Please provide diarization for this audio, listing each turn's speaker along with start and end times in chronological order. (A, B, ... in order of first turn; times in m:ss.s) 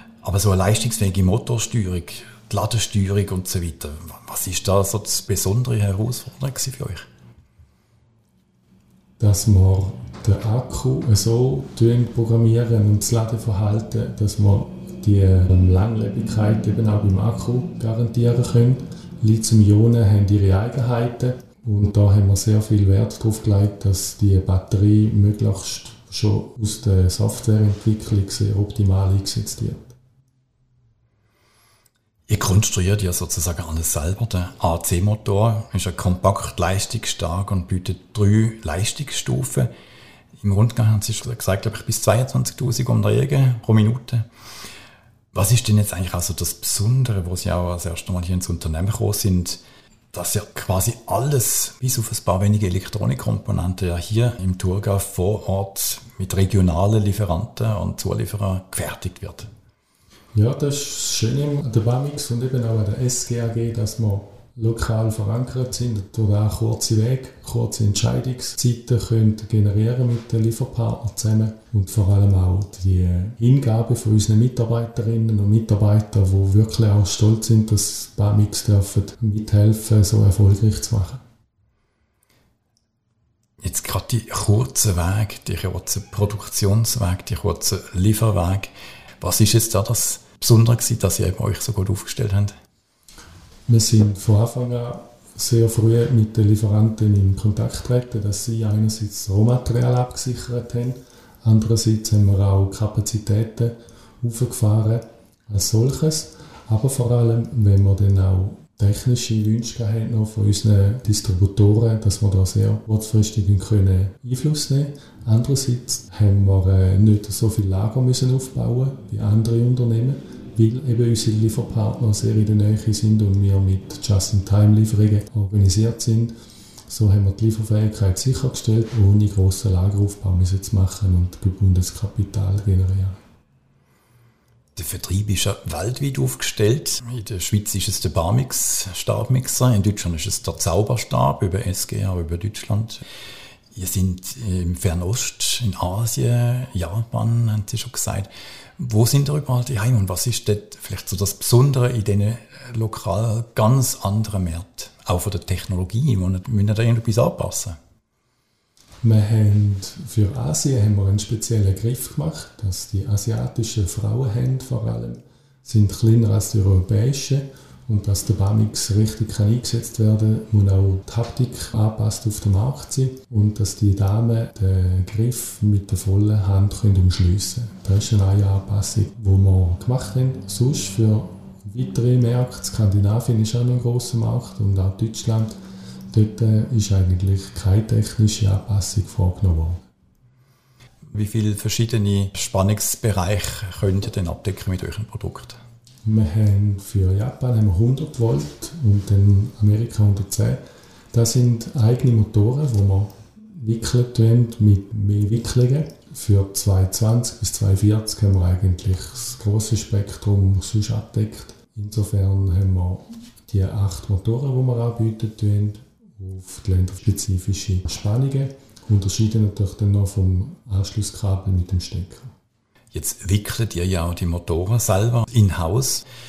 0:00.2-0:07.1 A
0:09.2-0:29.9 B
0:32.3-0:39.7 A
0:40.4-0:44.2 A
0:45.3-0:49.6 A
0:50.1-0:59.5 A
1:00.3-1:21.2 B
1:23.6-1:32.5 A
1:33.7-2:06.3 B
2:06.9-2:13.2 B
2:14.8-2:23.0 A
2:23.8-2:37.8 A
2:39.0-3:05.6 B
3:06.1-3:09.8 B
3:11.1-3:15.6 A
3:16.0-3:20.6 B
3:21.1-3:42.3 B
3:42.9-3:46.0 A